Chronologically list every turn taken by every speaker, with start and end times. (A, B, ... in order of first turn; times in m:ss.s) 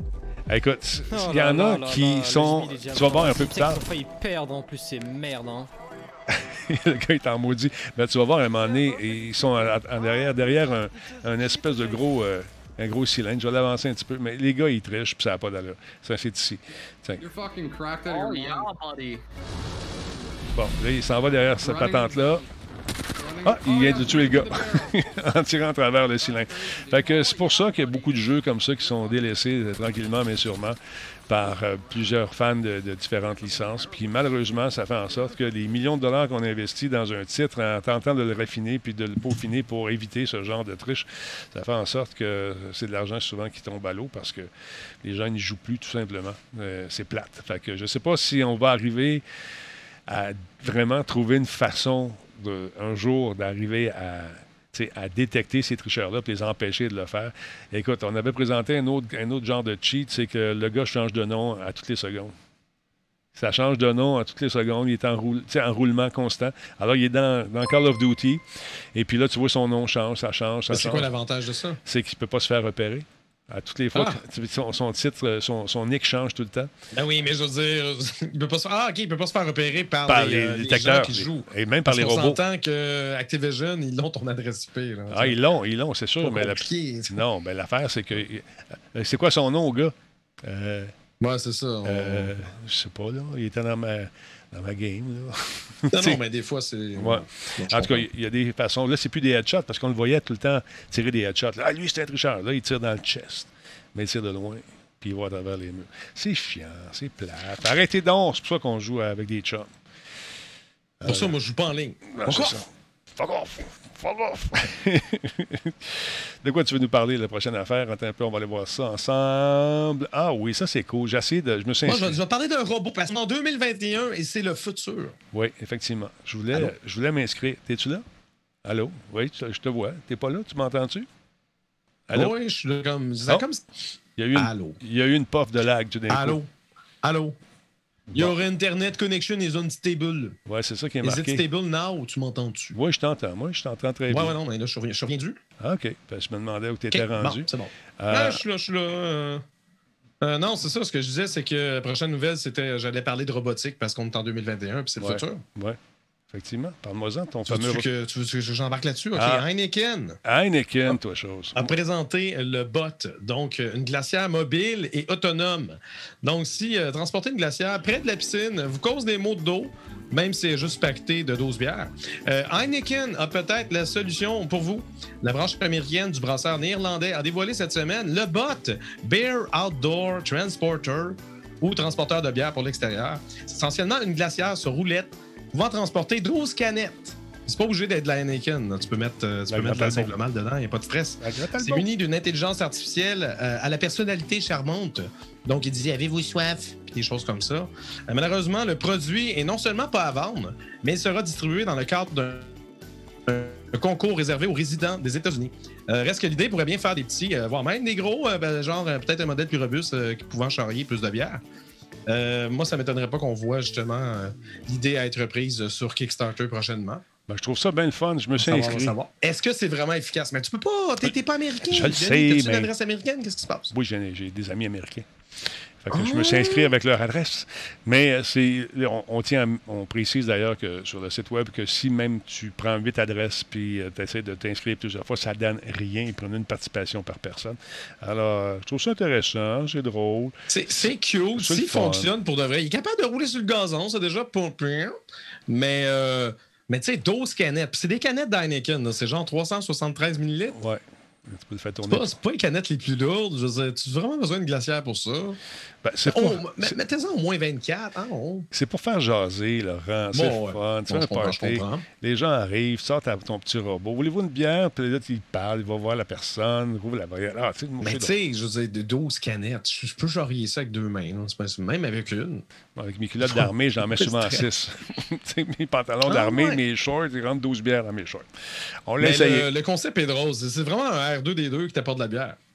0:00.5-0:03.8 A
0:01.1-0:05.7 B
0:06.3-0:17.2 A
0:17.2-0:18.8 C
0:18.0-0:19.1 B
0:20.5-0:22.4 A
0:21.5-0:22.5 C
0:23.2-0:25.0 C
0:23.4-0:44.5 A
0:26.2-0:29.1 C
0:33.5-0:34.0 C
0:45.0-0:49.2 A
0:50.1-1:02.3 A
1:03.4-1:08.4 A
1:08.9-1:11.1 A
1:10.7-1:11.8 D
1:11.8-1:16.7 A
1:13.9-1:14.2 D
1:16.9-1:25.4 D
1:20.1-1:22.4 A
1:25.1-1:30.9 A
1:26.2-1:27.2 D
1:31.2-1:32.3 D
1:31.8-1:36.2 A
1:35.9-1:38.0 D
1:37.0-1:49.7 A
1:51.0-1:51.3 A
1:51.0-1:52.6 D
1:52.1-2:02.2 A
2:01.8-2:05.2 D
2:05.3-2:08.0 A
2:08.6-2:11.1 A
2:12.1-2:12.3 A
2:12.1-2:13.8 D
2:14.2-2:16.4 A
2:14.3-2:14.8 D
2:16.1-2:16.5 D
2:17.0-2:17.4 D
2:18.1-2:18.4 A
2:18.1-2:20.4 D
2:20.4-2:21.4 A
2:21.0-2:22.8 D
2:22.7-2:24.4 A
2:24.1-2:25.4 D
2:25.6-2:28.4 A
2:26.9-2:29.4 D
2:30.2-2:35.4 D
2:35.0-2:35.8 A
2:36.3-2:37.9 A
2:37.4-2:40.2 D
2:39.2-2:39.4 A
2:40.2-2:41.7 A
2:41.5-3:22.5 D
3:09.5-3:10.1 A
3:11.2-3:11.9 A
3:23.2-3:31.4 D
3:32.1-3:37.0 D
3:37.3-3:39.0 A
3:38.4-3:43.7 D
3:41.7-3:42.7 A
3:43.7-3:45.1 A
3:45.8-4:00.8 A
3:45.9-3:46.7 D
4:00.5-4:05.0 D
4:01.4-4:02.1 A
4:05.5-4:10.6 D
4:10.5-4:12.1 A
4:11.9-4:15.4 D
4:15.8-4:16.8 A
4:16.0-4:18.5 D
4:18.5-4:28.1 A
4:20.1-4:21.8 D
4:27.8-4:32.4 D
4:32.8-4:38.3 A
4:33.2-4:34.5 D
4:36.0-4:36.6 D
4:38.8-4:39.5 A
4:39.0-4:42.4 D